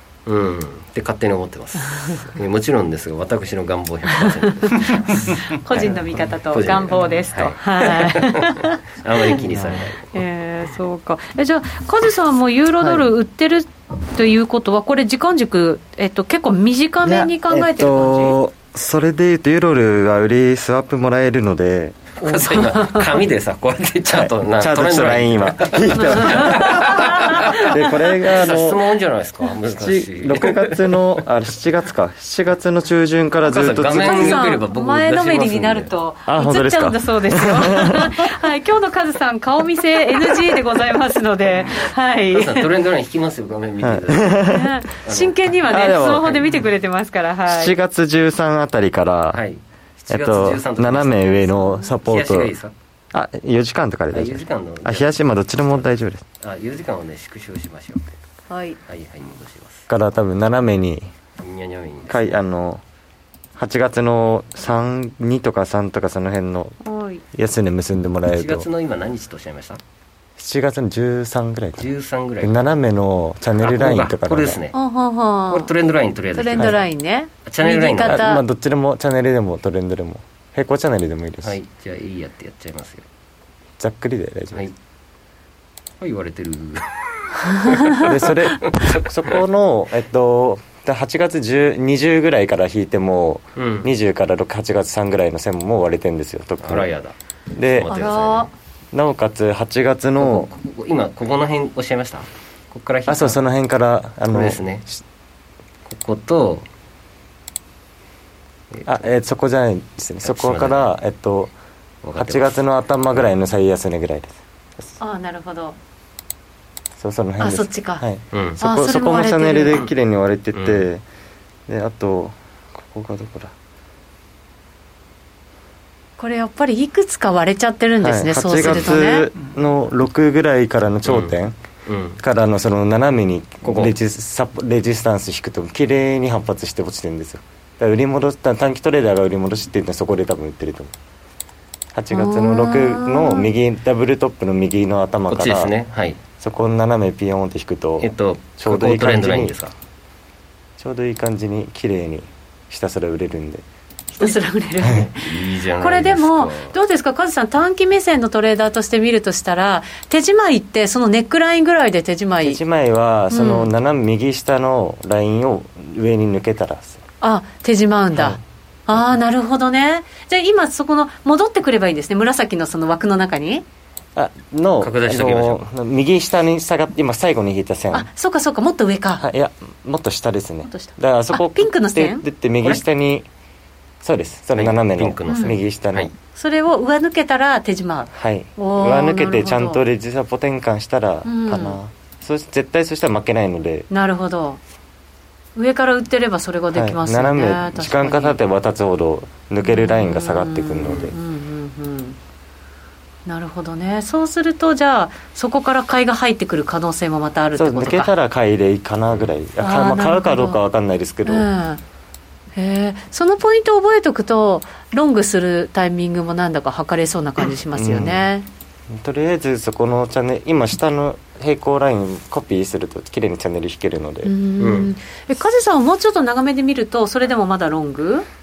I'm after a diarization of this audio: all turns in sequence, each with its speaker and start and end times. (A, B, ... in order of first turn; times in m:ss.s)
0:00.3-0:06.0 A
0:01.8-0:02.2 B
0:04.2-0:09.4 B
0:06.5-0:10.2 A
0:09.3-0:09.9 C
0:10.1-0:18.4 B
0:17.0-0:22.1 C
0:22.2-0:27.7 A
0:22.2-0:23.2 B
0:24.1-0:28.8 C
0:25.9-0:27.7 B
0:28.2-0:31.2 A
0:29.7-0:34.5 C
0:33.4-0:35.9 A
0:34.0-0:42.7 B
0:36.3-0:38.2 C
0:42.3-0:45.6 A
0:43.8-0:44.7 C
0:44.5-0:47.7 B
0:45.7-0:46.5 C
0:47.5-0:49.4 C
0:49.3-0:52.7 A
0:50.1-0:52.6 C
0:53.1-0:56.2 C
0:54.1-0:55.9 A
0:56.4-0:58.1 A
0:58.5-0:58.8 B
0:58.9-0:59.9 A
0:59.9-1:01.1 C
1:01.4-1:02.4 A
1:02.1-1:02.8 C
1:03.6-1:06.8 C
1:06.8-1:07.2 B
1:07.3-1:08.7 C
1:08.3-1:09.8 A
1:10.4-1:11.9 C
1:11.8-1:12.6 A
1:12.4-1:14.6 C
1:13.6-1:14.8 A
1:14.7-1:15.7 B
1:15.5-1:16.8 A
1:16.3-1:18.4 B
1:17.5-1:18.3 A
1:18.0-1:21.6 C
1:21.4-1:23.0 A
1:23.8-1:24.7 C
1:26.0-1:29.4 A
1:28.0-1:36.9 C
1:33.6-1:33.9 A
1:36.6-1:37.1 A
1:37.5-1:37.9 C
1:37.8-1:38.5 A
1:37.9-1:38.5 B
1:38.9-1:40.5 C
1:40.2-1:43.4 A
1:43.1-1:45.0 C
1:44.3-1:44.9 A
1:45.9-1:46.7 A
1:48.9-1:51.5 C
1:50.2-1:50.9 A
1:52.0-1:52.6 A
1:52.2-1:54.4 C
1:55.0-1:55.8 B
1:57.0-2:01.0 C
1:57.4-1:58.0 B
1:58.3-1:58.6 A
1:58.6-1:59.9 B
2:00.5-2:00.9 A
2:01.7-2:03.5 C
2:06.2-2:09.3 B
2:08.0-2:11.6 C
2:11.1-2:11.4 A
2:11.9-2:12.2 A
2:12.2-2:20.9 C
2:13.6-2:14.0 A
2:22.0-2:25.7 C
2:22.1-2:23.5 B
2:25.3-2:26.2 A
2:26.4-2:29.6 C
2:28.0-2:29.7 A
2:30.8-2:33.6 C
2:34.2-2:42.6 B
2:34.9-2:36.8 A
2:42.4-2:47.0 C
2:43.3-2:43.7 B
2:47.2-2:53.6 B
2:54.2-2:58.1 C
2:54.8-2:55.6 A
2:57.9-2:59.2 B
2:59.2-3:03.3 C
3:00.6-3:02.8 B
3:04.0-3:06.1 C
3:04.6-3:06.1 A
3:05.3-3:05.6 B
3:06.4-3:09.8 B
3:08.1-3:13.9 C
3:11.2-3:11.8 B
3:13.9-3:14.6 B
3:15.6-3:18.4 B
3:16.7-3:21.2 C
3:19.6-3:22.2 B
3:23.3-3:28.1 B
3:27.6-3:31.5 C
3:29.6-3:30.6 B
3:31.2-3:31.8 B
3:32.6-3:38.5 B
3:37.7-3:38.3 C
3:38.9-3:44.3 C
3:44.2-3:48.3 B
3:44.6-3:44.9 A